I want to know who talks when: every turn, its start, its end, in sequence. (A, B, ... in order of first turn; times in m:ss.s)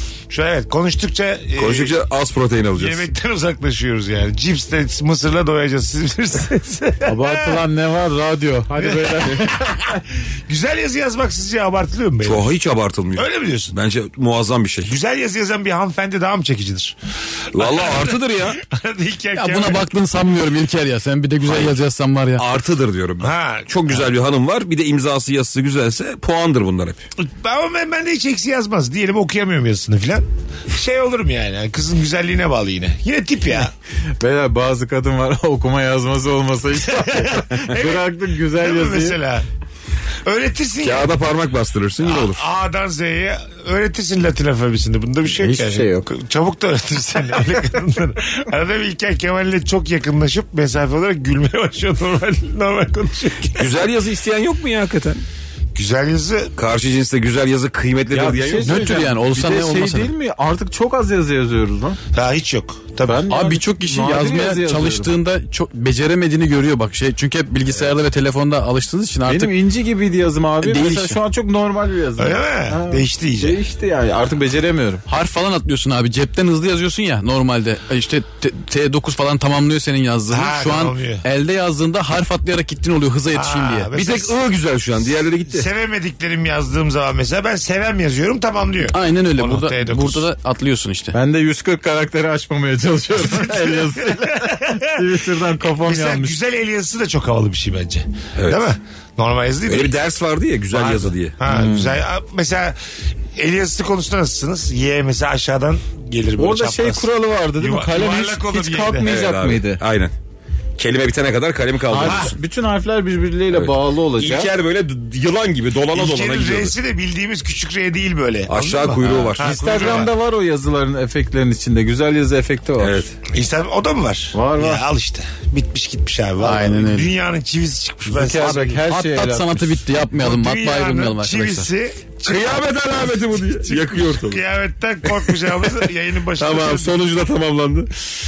0:00.3-0:02.0 A
0:01.6-0:03.1 B
0:02.8-0:07.6 A
0:07.1-0:09.8 C
0:08.8-0:12.5 A
0:12.2-0:14.9 B
0:13.2-0:13.8 A
0:14.8-0:17.0 A
0:17.5-0:18.6 B
0:17.5-0:19.9 A
0:19.4-0:22.4 D
0:21.4-0:21.7 B
0:22.4-0:27.0 B
0:23.2-0:24.0 A
0:27.2-0:33.7 A
0:34.2-0:39.2 C
0:36.9-0:39.5 A
0:40.2-0:41.2 A
0:40.8-0:42.4 B
0:42.0-0:53.7 A
0:45.4-0:46.1 C
0:53.5-0:55.2 B
0:55.8-0:56.5 A
0:56.6-0:58.9 B
0:58.1-1:02.0 C
0:58.6-1:00.1 D
1:02.1-1:03.3 A
1:03.0-1:05.1 C
1:03.3-1:09.6 D
1:09.3-1:15.0 C
1:10.6-1:11.2 D
1:12.2-1:13.6 A
1:15.1-1:23.9 D
1:20.3-1:21.2 A
1:23.3-1:24.4 A
1:24.0-1:25.7 B
1:25.5-1:30.3 A
1:28.9-1:31.2 D
1:31.1-1:36.4 C
1:33.3-1:35.2 A
1:35.8-1:40.0 A
1:38.4-1:38.6 B
1:39.7-1:41.4 B
1:40.7-1:42.8 A
1:41.5-1:42.0 C
1:43.4-1:49.1 A
1:46.4-1:49.8 C
1:49.0-1:50.1 B
1:50.8-1:52.4 B
1:51.9-1:54.5 C
1:52.0-1:52.3 A
1:53.5-1:56.8 B
1:55.9-2:00.1 A
1:58.5-2:00.1 B
1:59.4-2:03.0 C
2:02.8-2:03.1 B
2:03.3-2:08.8 A
2:04.3-2:04.8 C
2:06.4-2:07.1 D
2:08.1-2:09.8 C
2:08.5-2:11.7 D
2:10.2-2:17.1 A
2:12.2-2:14.4 B
2:16.4-2:17.9 B